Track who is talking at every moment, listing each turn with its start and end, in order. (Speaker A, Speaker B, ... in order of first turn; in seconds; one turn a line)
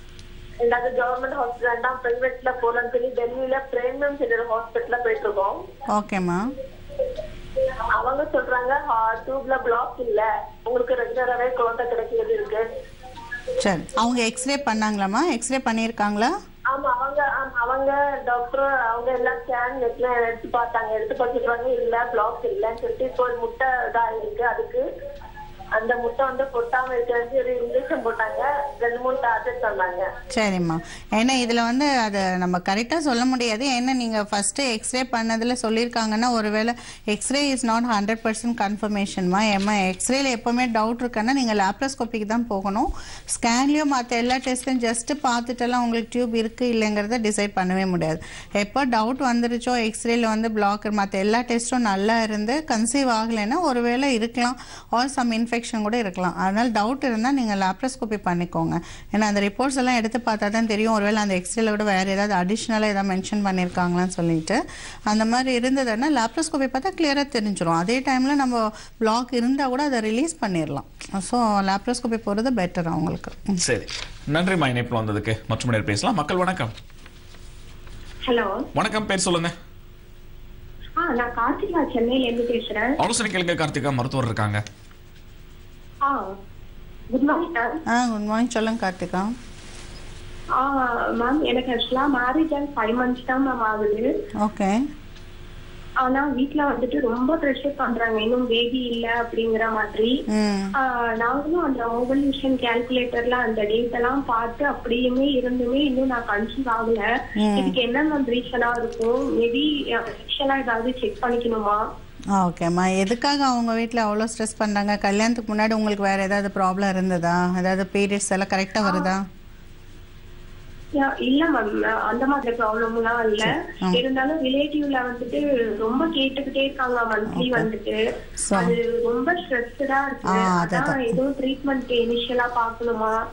Speaker A: 0.6-5.6
Speaker B: 5.9-6.5
Speaker A: 8.0-12.6
Speaker B: 13.6-16.3
Speaker A: 16.7-24.8
Speaker A: 25.8-30.1
Speaker B: 30.3-73.6
Speaker C: 73.6-76.7
Speaker D: 78.2-78.6
Speaker C: 78.8-79.5
Speaker D: 81.0-82.9
Speaker C: 83.0-84.6
Speaker D: 86.0-86.3
Speaker D: 87.1-87.8
Speaker B: 87.9-89.3
Speaker D: 90.6-94.1
Speaker B: 94.4-94.8
Speaker D: 96.0-100.1
Speaker B: 100.3-100.7
Speaker D: 100.9-107.0
Speaker B: 107.4-107.8
Speaker D: 107.5-111.8
Speaker B: 112.4-119.2
Speaker D: 121.0-128.0
Speaker B: 123.4-124.0
Speaker B: 127.3-127.7
Speaker B: 128.4-128.7
Speaker D: 128.6-133.1
Speaker B: 130.3-131.2